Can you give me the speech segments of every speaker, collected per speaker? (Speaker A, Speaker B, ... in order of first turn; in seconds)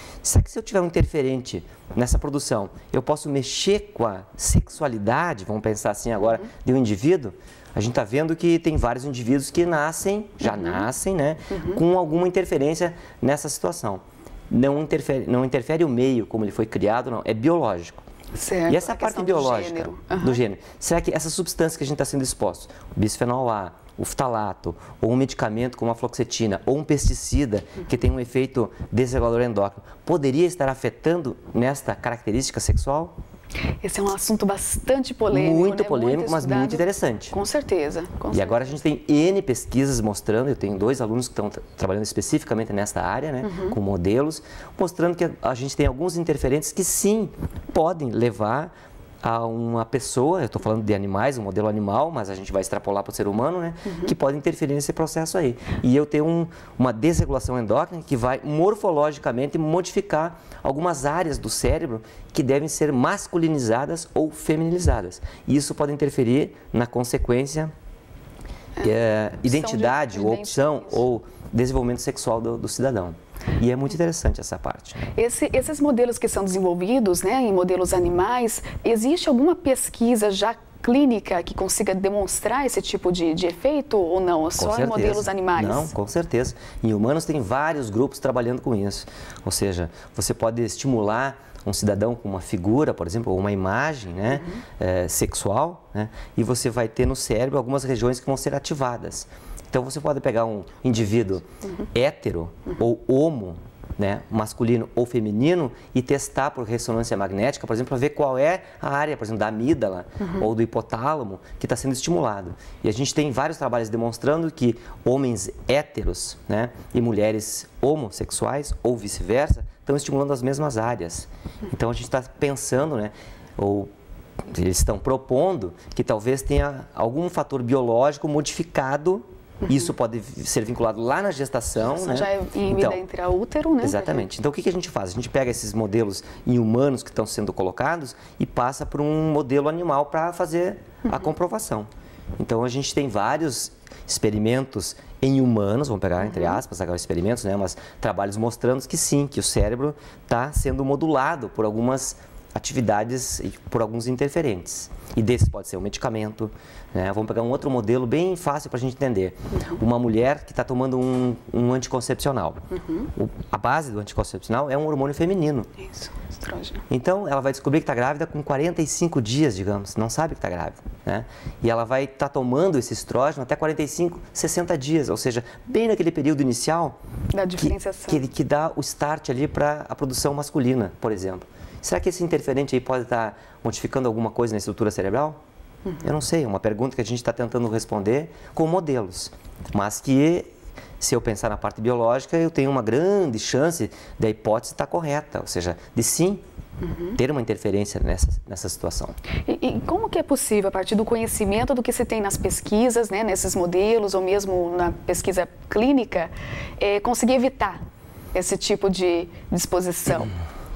Speaker A: 0.2-18.0, 18.7-33.1, 35.3-37.4, 38.3-67.7, 68.8-75.0, 84.6-123.9, 124.4-133.0, 133.8-162.6, 163.2-165.7, 166.9-177.0, 177.6-185.4, 186.0-190.5, 191.0-196.4, 197.2-199.2
Speaker B: 10.5-10.8, 11.5-11.8, 18.3-20.4, 33.8-38.8, 43.4-43.8, 69.5-71.0, 75.2-85.9, 131.9-134.2, 165.8-166.8, 177.3-178.2, 199.5-207.8, 208.3-210.3